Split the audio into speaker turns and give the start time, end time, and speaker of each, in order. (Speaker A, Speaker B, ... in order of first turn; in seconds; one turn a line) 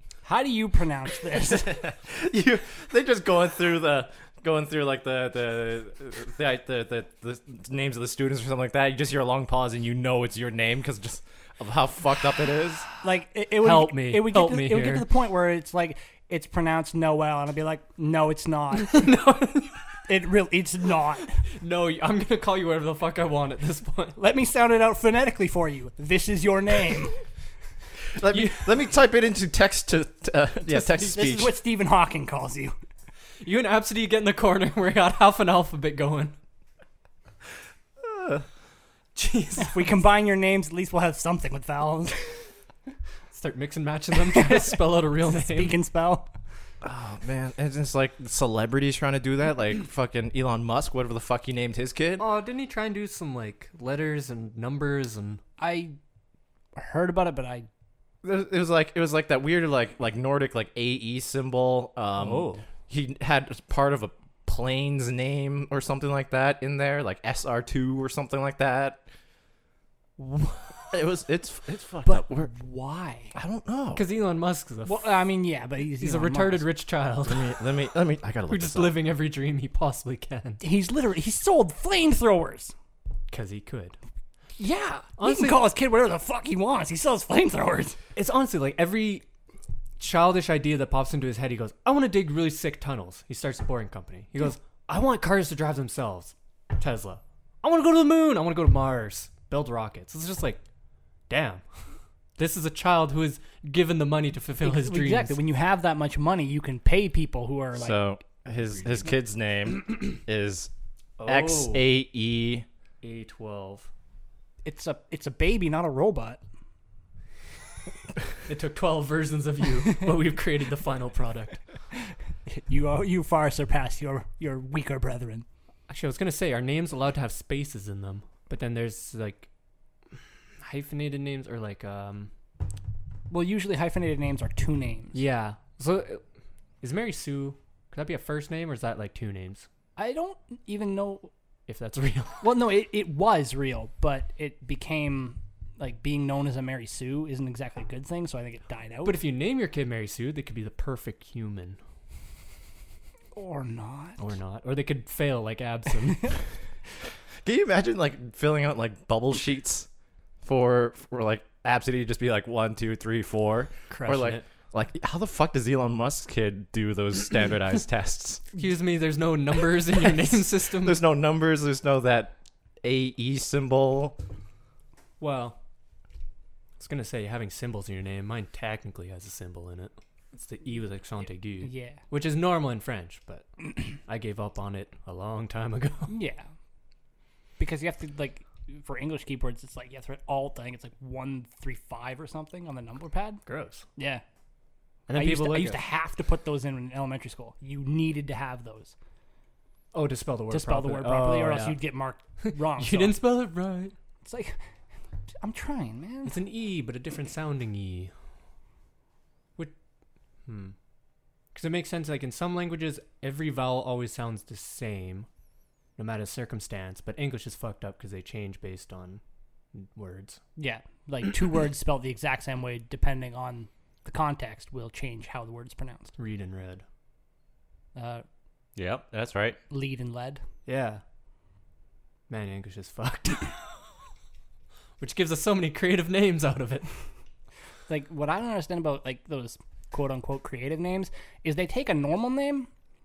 Speaker A: 0.2-1.9
Speaker B: 1.6-12.9
Speaker A: 13.0-19.0
Speaker C: 13.6-15.1
Speaker C: 18.8-19.8
Speaker A: 20.1-21.4
Speaker C: 21.6-24.2
Speaker A: 24.2-27.1
Speaker B: 28.1-31.5
Speaker C: 28.3-28.7
Speaker A: 30.7-32.7
Speaker C: 33.4-36.4
Speaker B: 38.0-38.4
Speaker C: 39.1-39.9
Speaker A: 39.6-42.5
Speaker C: 43.3-45.8
Speaker A: 44.2-46.3
Speaker B: 46.8-52.2
Speaker C: 52.2-55.4
Speaker A: 55.6-56.0
Speaker A: 56.8-57.7
Speaker B: 58.2-69.0
Speaker C: 62.2-62.6
Speaker B: 70.9-72.5
Speaker A: 72.0-73.3
Speaker B: 73.3-74.0
Speaker C: 73.9-75.1
Speaker A: 74.8-76.7
Speaker C: 76.0-77.6
Speaker B: 77.2-79.0
Speaker C: 78.5-80.6
Speaker A: 80.6-82.7
Speaker C: 83.3-84.0
Speaker A: 84.6-88.0
Speaker C: 85.2-85.6
Speaker C: 88.2-89.2
Speaker C: 90.0-100.6
Speaker C: 101.3-101.8
Speaker C: 102.4-105.4
Speaker A: 104.6-108.0
Speaker B: 107.7-110.7
Speaker C: 111.2-111.9
Speaker B: 111.2-112.7
Speaker C: 113.0-113.9
Speaker A: 114.6-116.4
Speaker C: 118.5-121.6
Speaker A: 122.5-125.5
Speaker C: 125.9-129.5
Speaker C: 130.6-132.3
Speaker A: 133.3-135.2
Speaker C: 135.1-136.2
Speaker C: 136.8-139.7
Speaker A: 140.0-141.3
Speaker C: 141.7-142.6
Speaker A: 142.4-149.2
Speaker C: 149.0-151.8
Speaker A: 153.3-154.2
Speaker C: 154.2-156.4
Speaker B: 157.4-159.9
Speaker B: 160.4-168.5
Speaker C: 163.9-164.4
Speaker C: 168.5-171.0
Speaker B: 170.8-174.2
Speaker C: 175.2-175.6
Speaker C: 176.8-186.1
Speaker A: 181.6-182.0
Speaker A: 186.1-186.5
Speaker A: 187.6-193.4
Speaker C: 193.4-193.8
Speaker A: 194.0-194.2
Speaker C: 195.1-195.8
Speaker A: 195.1-198.9
Speaker C: 199.9-201.8
Speaker A: 200.5-203.2
Speaker C: 202.4-203.9
Speaker A: 204.2-204.6
Speaker A: 205.4-206.3
Speaker C: 206.2-208.1
Speaker C: 210.4-210.7
Speaker C: 211.5-215.3
Speaker C: 216.0-219.2
Speaker C: 219.7-220.4
Speaker A: 220.6-226.1
Speaker C: 226.2-226.8
Speaker A: 227.9-228.2
Speaker B: 228.8-229.6
Speaker A: 229.7-230.4
Speaker C: 230.7-231.0
Speaker C: 232.3-233.6
Speaker C: 235.0-236.9
Speaker A: 237.9-242.7